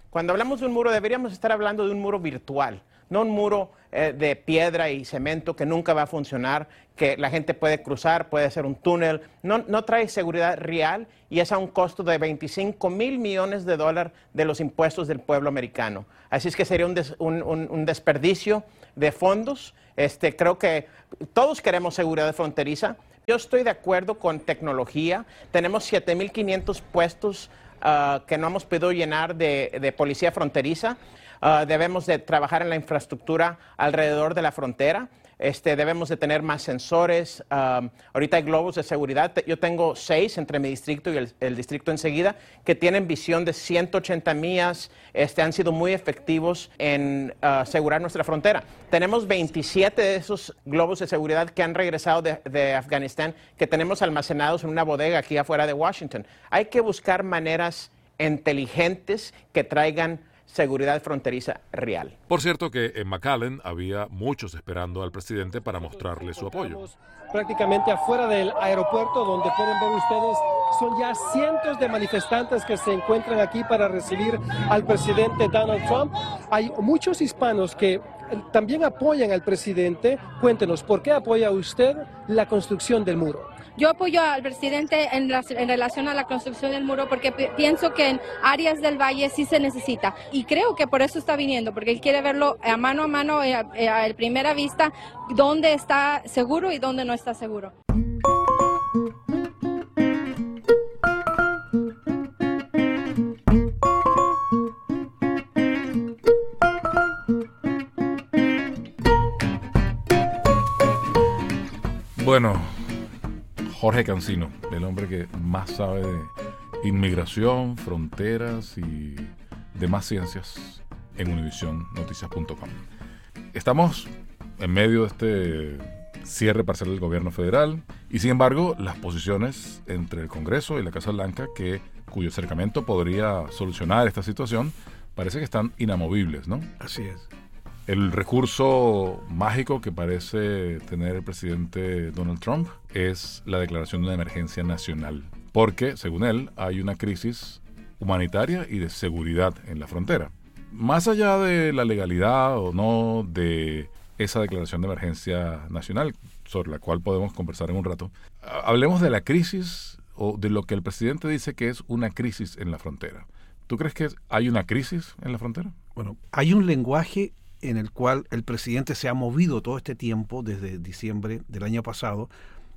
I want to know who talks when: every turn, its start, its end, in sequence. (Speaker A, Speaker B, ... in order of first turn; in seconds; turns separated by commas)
Speaker A: 0.1-62.1, Speaker B: 62.3-66.8, Speaker C: 65.7-83.5, Speaker D: 83.8-97.7, Speaker B: 112.2-113.0, Speaker B: 113.7-122.8, Speaker B: 123.5-136.7, Speaker E: 136.8-137.3, Speaker B: 137.9-165.7, Speaker E: 166.0-172.3